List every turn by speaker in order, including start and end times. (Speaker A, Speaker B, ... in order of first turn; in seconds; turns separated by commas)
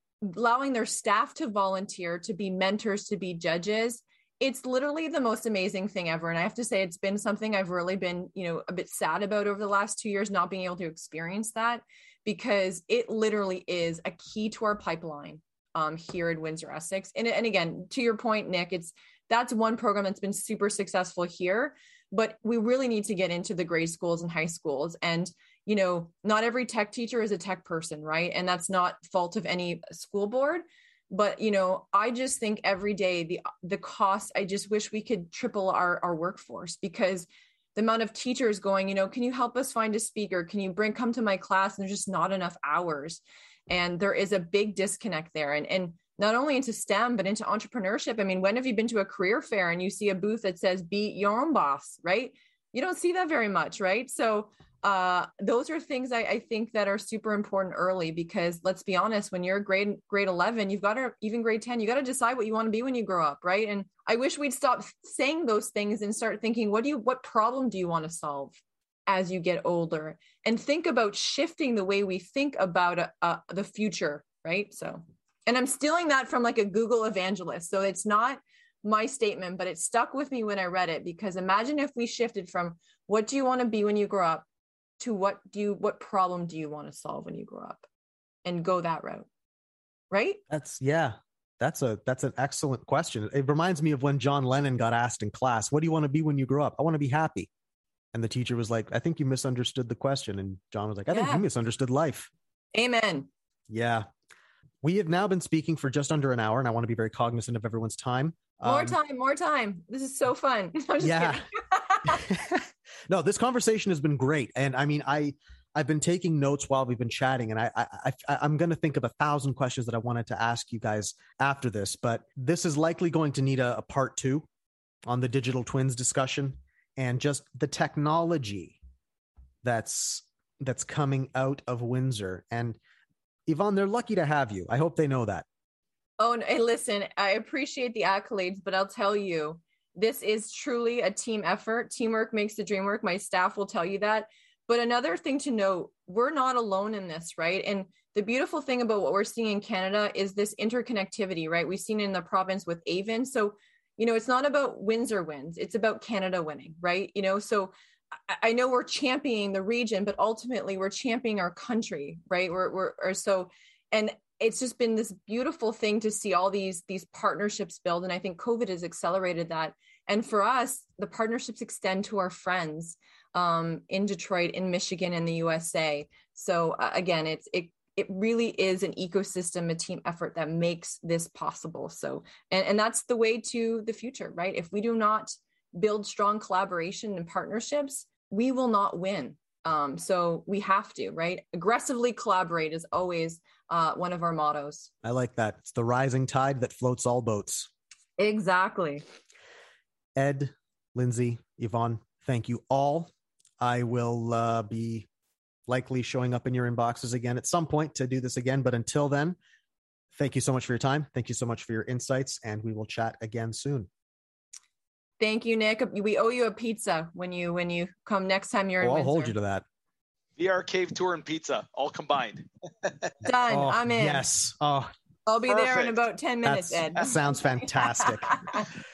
Speaker A: 0.2-84.5, Speaker A: 85.0-87.9, Speaker A: 88.5-89.3, Speaker A: 90.1-90.4, Speaker B: 90.5-97.5, Speaker B: 98.1-102.3, Speaker A: 101.1-101.5, Speaker A: 102.8-103.3, Speaker B: 103.7-104.1, Speaker B: 104.8-109.0, Speaker A: 108.6-112.2, Speaker B: 111.0-111.5, Speaker B: 112.0-124.5, Speaker B: 125.1-128.8, Speaker B: 129.6-132.8, Speaker B: 133.5-135.5, Speaker A: 136.2-157.7, Speaker A: 158.3-194.9, Speaker B: 195.0-197.7, Speaker A: 198.2-199.0, Speaker B: 200.2-205.1, Speaker B: 205.7-209.4, Speaker B: 210.2-213.9, Speaker A: 215.2-219.4, Speaker B: 218.8-219.7, Speaker C: 220.4-222.9, Speaker A: 223.2-224.2, Speaker B: 223.5-224.9, Speaker A: 225.3-228.7, Speaker C: 225.5-226.0, Speaker B: 226.4-228.6